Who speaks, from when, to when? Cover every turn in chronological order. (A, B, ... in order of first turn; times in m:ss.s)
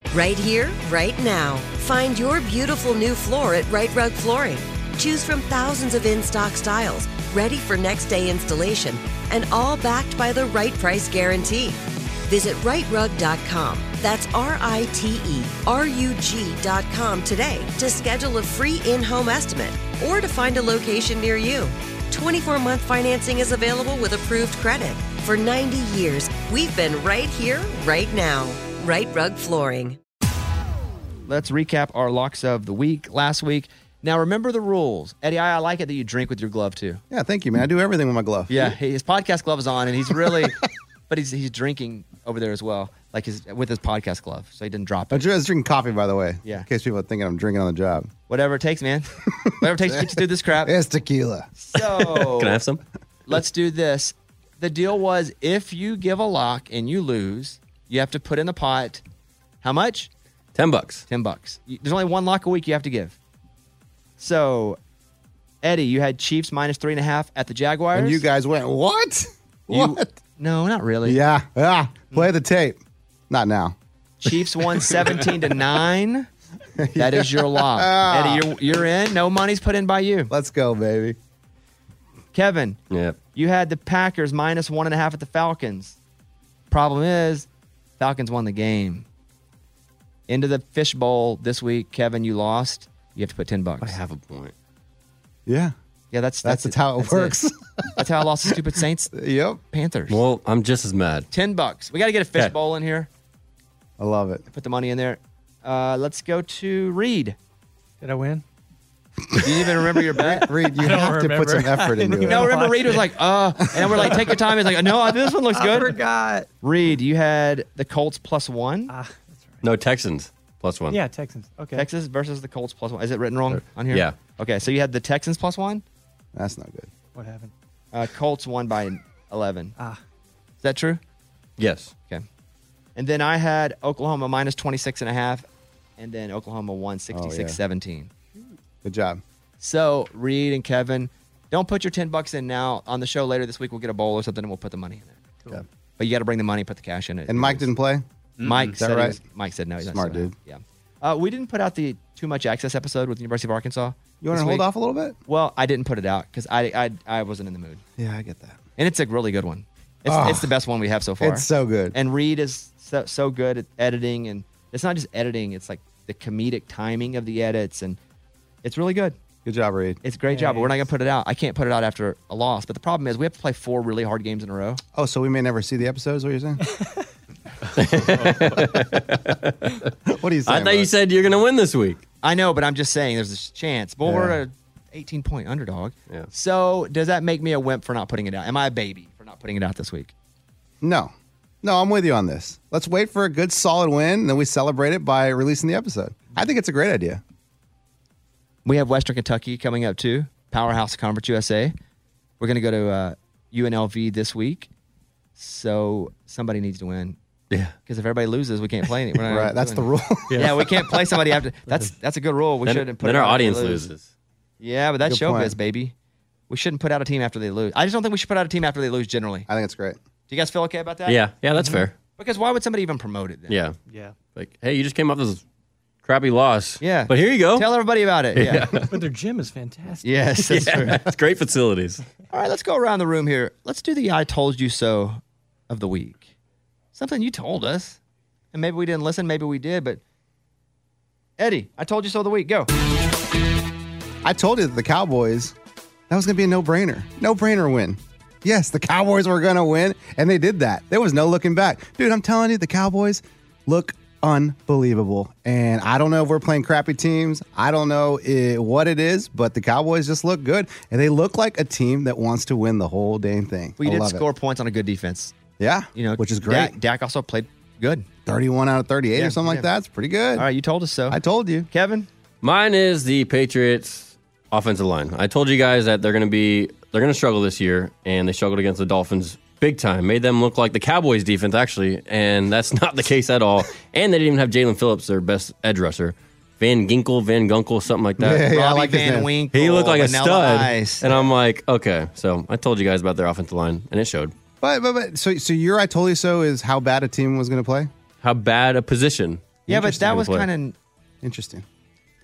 0:00.1-0:30.0 A
0:31.3-0:37.0 B
0:37.1-0:38.7 C
0:38.5-0:45.3 B
0:40.2-0:40.5 C
0:45.1-0:48.1 C
0:48.3-0:50.8 B
0:49.4-0:52.0 C
0:51.6-0:52.6 B
0:52.2-0:52.8 D
0:53.3-0:59.0 B
0:59.6-1:00.1 B
1:00.6-1:01.0 D
1:01.1-1:03.2 B
1:04.2-1:04.8 B
1:05.6-1:08.2 B
1:07.9-1:10.2 C
1:09.7-1:11.2 B
1:11.0-1:12.8 C
1:13.3-1:13.8 C
1:14.2-1:16.3 B
1:16.8-1:18.6 C
1:17.0-1:20.3 B
1:20.3-1:21.2 C
1:22.3-1:22.8 B
1:22.9-1:23.2 D
1:23.4-1:26.0 B
1:26.7-1:27.5 B
1:28.0-1:29.1 B
1:30.3-1:34.0 B
1:33.8-1:34.5 D
1:35.5-1:35.7 C
1:36.1-1:37.4 B
1:36.4-1:38.6 C
1:38.0-1:39.1 B
1:39.1-1:39.6 C
1:39.7-1:40.2 B
1:40.1-1:41.3 D
1:41.3-1:43.1 B
1:44.0-1:44.4 C
1:44.5-1:47.4 B
1:48.0-1:48.4 E
1:49.4-1:50.6 B
1:49.5-1:52.6 C
1:50.4-1:54.8 E
1:52.2-1:56.0 B
1:55.5-1:56.5 E
1:56.6-1:58.9 B
1:58.9-1:59.6 E
1:59.6-2:01.0 D
2:00.9-2:01.9 E
2:01.7-2:05.8 B
2:03.5-2:04.2 D
2:06.3-2:06.9 C
2:07.1-2:07.5 E
2:07.9-2:09.8 B
2:10.6-2:11.0 B
2:11.6-2:11.9 D
2:13.0-2:15.5 B
2:16.0-2:18.1 B
2:17.1-2:17.6 C
2:18.8-2:19.2 C
2:19.6-2:25.2 B
2:26.0-2:27.7 B
2:27.3-2:28.0 C
2:28.4-2:34.7 B
2:28.6-2:29.2 C
2:29.8-2:30.4 C
2:34.2-2:35.2 C
2:35.3-2:37.8 B
2:38.0-2:38.6 C
2:38.8-2:48.0 B
2:40.1-2:40.6 C
2:41.2-2:42.0 C
2:48.6-2:49.2 B
2:49.4-2:50.0 C
2:50.0-2:54.8 B
2:50.3-2:50.8 E
2:55.0-2:56.6 C
2:57.7-2:59.8 D
3:00.1-3:00.9 C
3:00.5-3:02.0 D
3:02.2-3:10.1 B
3:04.0-3:04.4 C
3:10.8-3:17.2 C
3:18.6-3:21.8 B
3:22.4-3:24.7 B
3:25.4-3:27.2 B
3:27.9-3:33.9 B
3:29.3-3:30.6 C
3:30.3-3:31.1 D
3:32.6-3:34.1 D
3:34.6-3:36.0 B
3:35.0-3:35.6 C
3:36.5-3:39.5 B
3:39.5-3:40.0 C
3:40.3-3:41.2 B
3:41.1-3:41.9 D
3:41.6-3:41.9 E
3:42.2-3:43.6 B
3:43.5-3:43.8 D
3:43.9-3:44.2 E
3:44.4-3:45.4 D
3:46.0-3:47.7 D
3:46.8-3:48.8 B
3:48.4-3:48.9 D
3:48.9-3:50.1 E
3:50.0-3:51.1 B
3:50.5-3:52.0 D
3:52.3-3:56.3 B
3:56.9-3:58.0 B
3:58.5-4:00.0 B
4:01.4-4:02.7 B
4:04.2-4:05.6 C
4:06.1-4:24.3 C
4:23.8-4:25.4 B
4:25.6-4:26.8 C
4:26.0-4:28.1 B
4:28.3-4:30.5 C
4:29.1-4:29.7 B
4:30.4-4:32.1 B
4:31.1-4:31.7 C
4:32.4-4:48.5 D
4:48.2-4:49.3 C
4:48.5-4:51.1 B
4:49.5-4:54.3 D
4:54.6-4:57.9 C
4:58.2-5:00.5 D
4:59.7-5:00.8 B
5:01.2-5:01.6 C